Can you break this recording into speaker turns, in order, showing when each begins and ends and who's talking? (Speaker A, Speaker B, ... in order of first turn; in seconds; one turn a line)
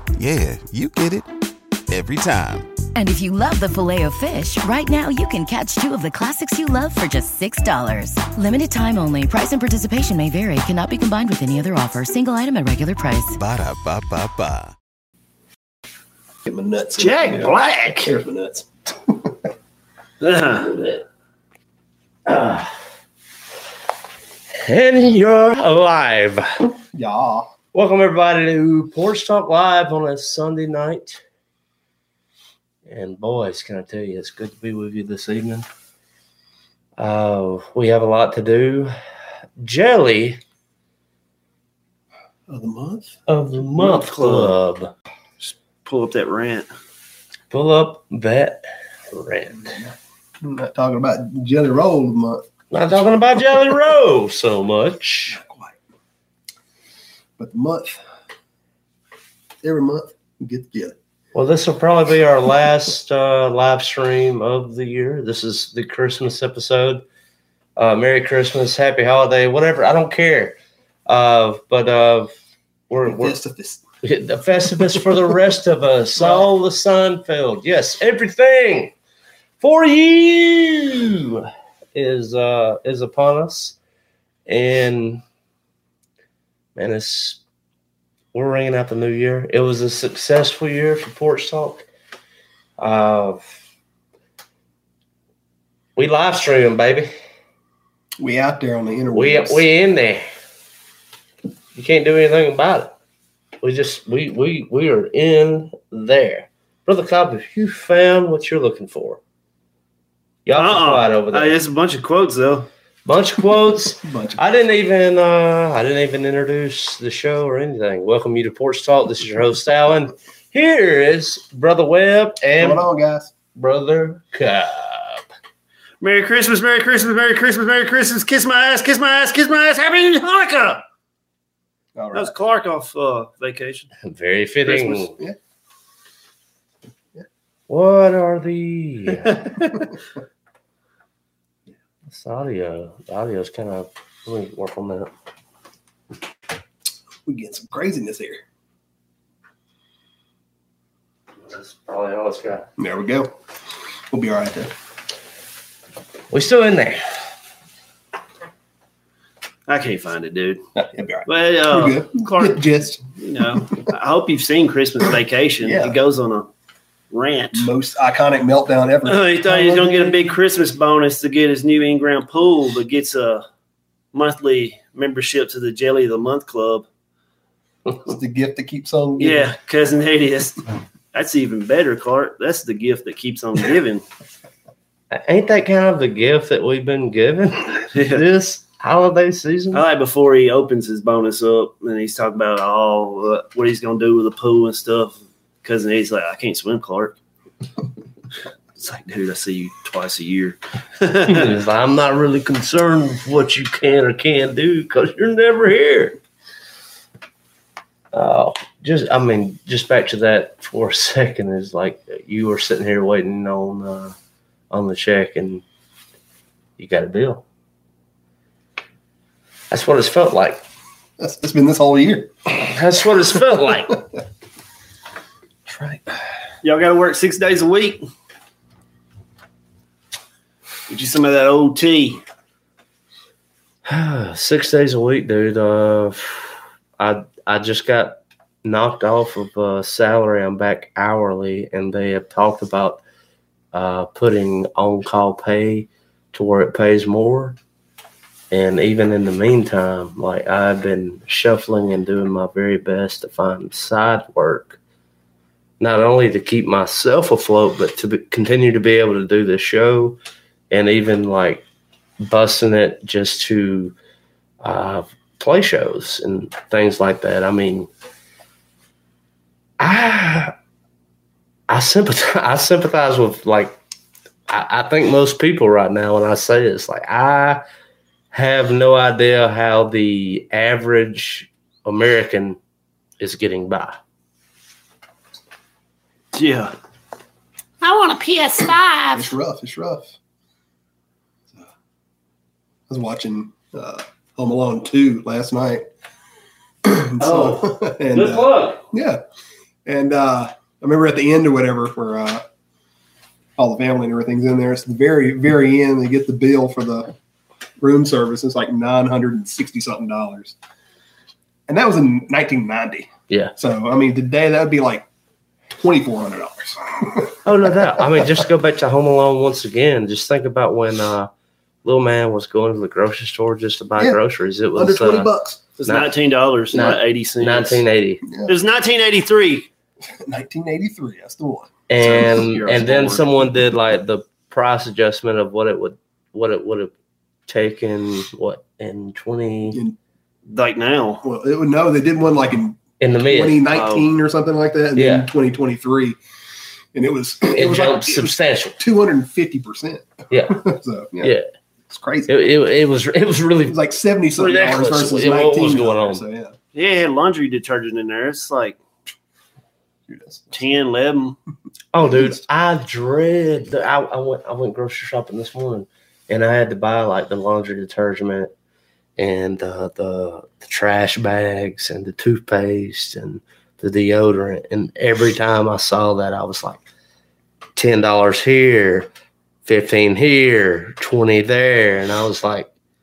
Speaker A: 0.1-1.3
Speaker A: 1.9-2.7
Speaker B: 2.9-13.4
Speaker A: 13.4-14.7
Speaker C: 16.4-19.3
Speaker D: 17.0-18.1
Speaker D: 20.2-20.7
Speaker E: 22.2-22.7
Speaker E: 24.6-26.5
Speaker C: 26.9-27.5
Speaker E: 27.7-31.2
Speaker E: 32.8-35.6
Speaker E: 37.0-38.9
Speaker E: 39.6-40.4
Speaker C: 42.5-43.1
Speaker E: 43.3-44.9
Speaker D: 43.8-44.5
Speaker D: 45.4-46.7
Speaker E: 47.5-49.8
Speaker C: 49.7-52.4
Speaker E: 52.7-55.4
Speaker C: 55.3-55.7
Speaker C: 57.4-58.0
Speaker C: 59.6-61.0
Speaker E: 61.3-67.0
Speaker E: 67.8-72.3
Speaker E: 72.9-73.4
Speaker C: 73.0-73.8
Speaker E: 74.0-78.9
Speaker C: 76.2-76.5
Speaker E: 79.6-83.8
Speaker E: 84.5-85.2
Speaker E: 86.8-87.4
Speaker E: 88.3-91.8
Speaker E: 92.8-93.4
Speaker E: 96.0-97.1
Speaker C: 98.2-99.6
Speaker E: 99.1-100.2
Speaker E: 101.7-102.9
Speaker E: 103.6-109.2
Speaker E: 110.4-111.5
Speaker D: 110.5-112.7
Speaker E: 113.0-122.8
Speaker C: 114.0-114.4
Speaker C: 122.6-123.3
Speaker E: 123.5-125.2
Speaker D: 126.0-130.8
Speaker C: 131.9-132.3
Speaker D: 132.1-133.9
Speaker E: 134.0-135.1
Speaker C: 134.9-135.3
Speaker E: 137.7-139.5
Speaker D: 139.4-139.7
Speaker E: 142.1-145.1
Speaker C: 147.2-148.4
Speaker E: 151.5-152.7
Speaker C: 152.8-153.3
Speaker C: 154.1-154.7
Speaker E: 156.3-157.0
Speaker D: 159.7-160.6
Speaker C: 160.8-163.0
Speaker D: 161.2-166.5
Speaker C: 165.6-166.0
Speaker D: 167.1-167.7
Speaker C: 167.5-170.2
Speaker D: 169.1-173.4
Speaker D: 174.1-176.9
Speaker C: 178.0-179.5
Speaker D: 179.2-180.6
Speaker D: 181.1-184.0
Speaker E: 185.1-189.8
Speaker D: 187.9-188.2
Speaker D: 189.7-197.2
Speaker D: 198.8-201.5
Speaker E: 201.2-206.2
Speaker E: 208.1-214.1
Speaker E: 214.7-215.6
Speaker E: 216.8-217.4
Speaker E: 219.7-220.6
Speaker C: 221.2-222.3
Speaker E: 222.5-224.0
Speaker C: 225.7-226.0
Speaker D: 226.6-228.0
Speaker D: 230.9-232.2
Speaker E: 233.8-243.0
Speaker E: 243.7-247.6
Speaker E: 248.5-254.8
Speaker E: 255.8-260.2
Speaker E: 260.7-261.6
Speaker E: 262.2-263.9
Speaker E: 264.6-267.9
Speaker E: 269.8-270.5
Speaker E: 271.7-273.8
Speaker E: 274.5-277.6
Speaker E: 278.3-282.6
Speaker E: 283.2-284.0
Speaker D: 286.3-286.7
Speaker D: 287.8-289.3
Speaker C: 289.1-290.1
Speaker C: 292.9-295.8
Speaker C: 296.8-299.2
Speaker E: 297.2-298.8
Speaker C: 299.9-302.4
Speaker C: 303.6-307.1
Speaker C: 307.8-310.6
Speaker C: 311.7-315.1
Speaker C: 315.8-318.4
Speaker E: 317.4-321.3
Speaker E: 321.8-325.3
Speaker C: 324.7-325.7
Speaker D: 325.8-327.8
Speaker E: 325.8-326.1
Speaker E: 326.7-328.2
Speaker C: 328.2-328.5
Speaker D: 328.5-329.7
Speaker C: 330.2-332.5
Speaker E: 331.9-336.9
Speaker D: 332.0-333.2
Speaker E: 337.5-339.8
Speaker C: 339.7-339.9
Speaker D: 340.5-341.2
Speaker C: 341.2-346.2
Speaker E: 343.0-343.7
Speaker D: 343.7-344.1
Speaker E: 344.9-345.3
Speaker C: 346.9-351.3
Speaker E: 347.5-348.8
Speaker E: 350.3-351.4
Speaker C: 351.9-352.3
Speaker E: 352.3-353.8
Speaker C: 353.7-356.6
Speaker E: 354.4-356.2
Speaker D: 356.7-358.8
Speaker C: 360.1-360.6
Speaker D: 360.5-361.4
Speaker E: 361.9-368.5
Speaker C: 362.1-362.4
Speaker E: 369.2-376.8
Speaker E: 377.8-379.1
Speaker E: 379.6-382.7